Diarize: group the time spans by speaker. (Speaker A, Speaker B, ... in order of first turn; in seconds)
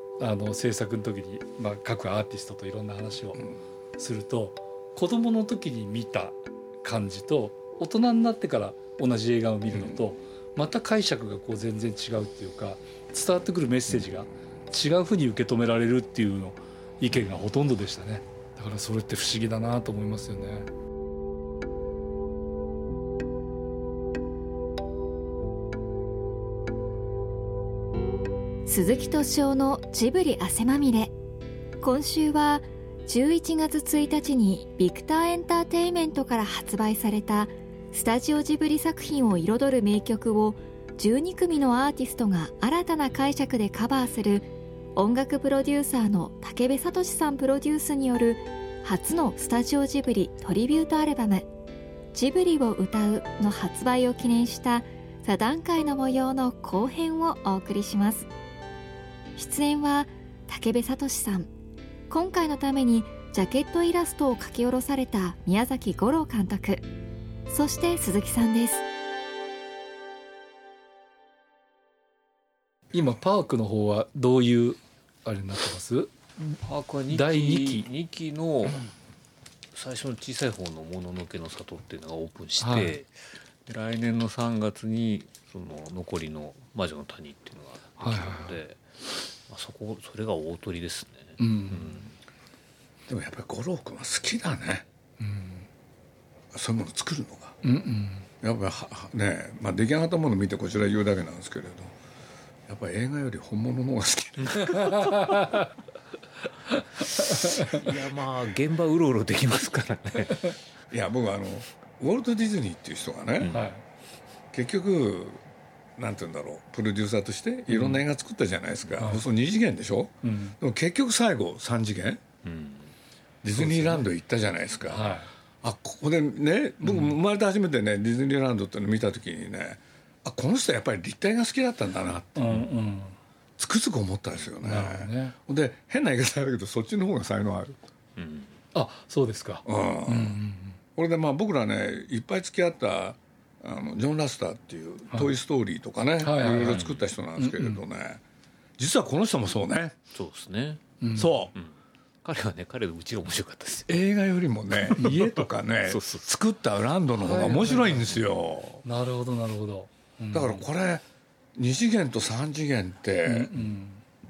Speaker A: 0.2-3.4, 4.0-20.7, 72.9-76.1, 77.1-77.9, 82.6-83.0, 88.0-88.6, 91.4-92.0, 95.2-95.7, 97.6-98.3, 105.0-105.7, 107.4-107.7, 113.5-113.8, 119.0-119.3, 120.2-120.6, 123.6-124.1, 124.9-125.3, 126.8-127.2, 132.4-133.2, 134.6-135.4, 138.7-140.8, 145.1-145.3, 146.2-146.8, 147.4-147.8, 151.0-151.4, 155.0-155.4, 157.2-158.2, 158.8-160.7, 163.2-164.0
Speaker B: 9.7-10.0, 93.1-94.9, 96.5-97.6, 98.4-101.9, 102.7-105.2, 110.9-113.5, 114.5-115.4, 116.0-122.2, 123.4-132.7, 133.6-137.8, 139.7-140.4, 141.0-148.2, 148.8-150.0, 151.1-151.5, 153.9-158.8, 160.3-161.1, 161.6-163.5
Speaker C: 28.7-31.1, 31.8-51.5, 52.1-58.3, 59.4-61.5, 62.1-66.8, 67.5-68.8
Speaker D: 76.4-78.8, 79.7-88.8, 89.5-92.1, 107.3-110.6, 113.4-113.7, 122.4-122.9, 138.2-138.6, 146.6-147.1, 150.1-150.8, 151.6-153.9, 155.8-156.3